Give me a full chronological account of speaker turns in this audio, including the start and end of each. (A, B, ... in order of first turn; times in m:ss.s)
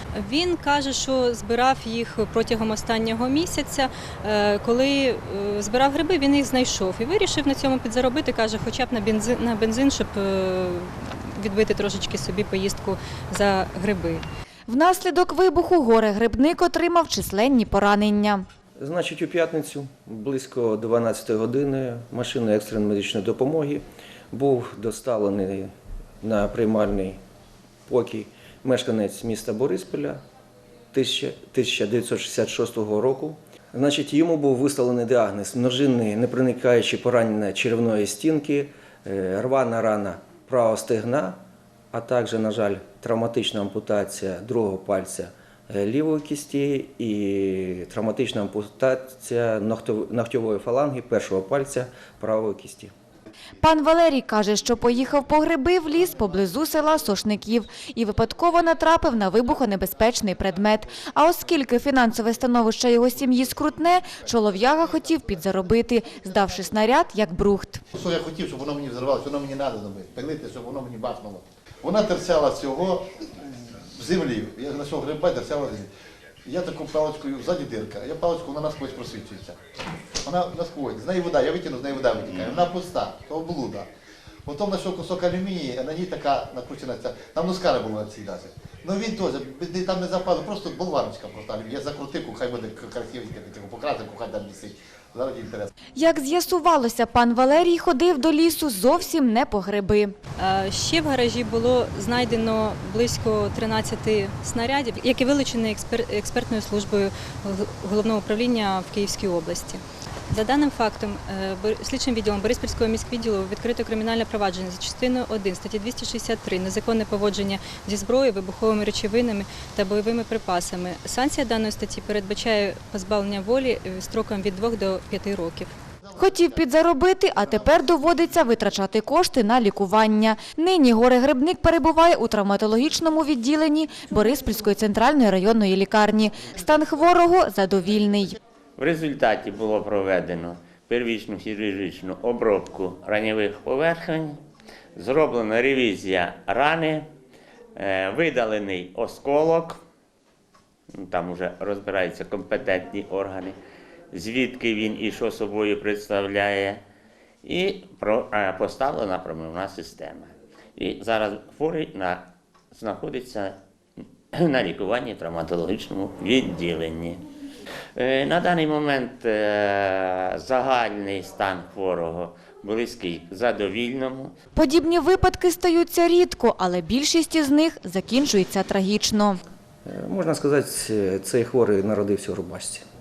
0:00.1-0:14.2 A
0:14.7-0:18.4 B
0:18.8-0:25.7 C
0:26.2-0:27.2 C
0:27.8-0:30.2 C
0:30.9-0:41.4 C
0:41.9-0:52.9 C
0:53.6-1:07.8 B
1:07.9-1:13.1 D
1:13.9-1:15.9 D
1:16.4-1:19.6 D
1:20.2-1:23.9 D
1:24.4-1:35.7 D
1:36.0-1:40.1 B
1:40.4-2:05.7 A
2:06.0-2:06.4 D
2:06.2-2:18.4 B
2:18.8-2:24.4 E
2:24.9-2:27.1 E
2:27.8-2:29.8 E
2:30.9-2:33.6 E
2:34.1-2:36.8 E
2:37.4-2:43.6 E
2:44.3-2:47.2 E
2:48.0-2:54.3 E
2:54.6-2:59.4 B
2:59.8-3:02.8 C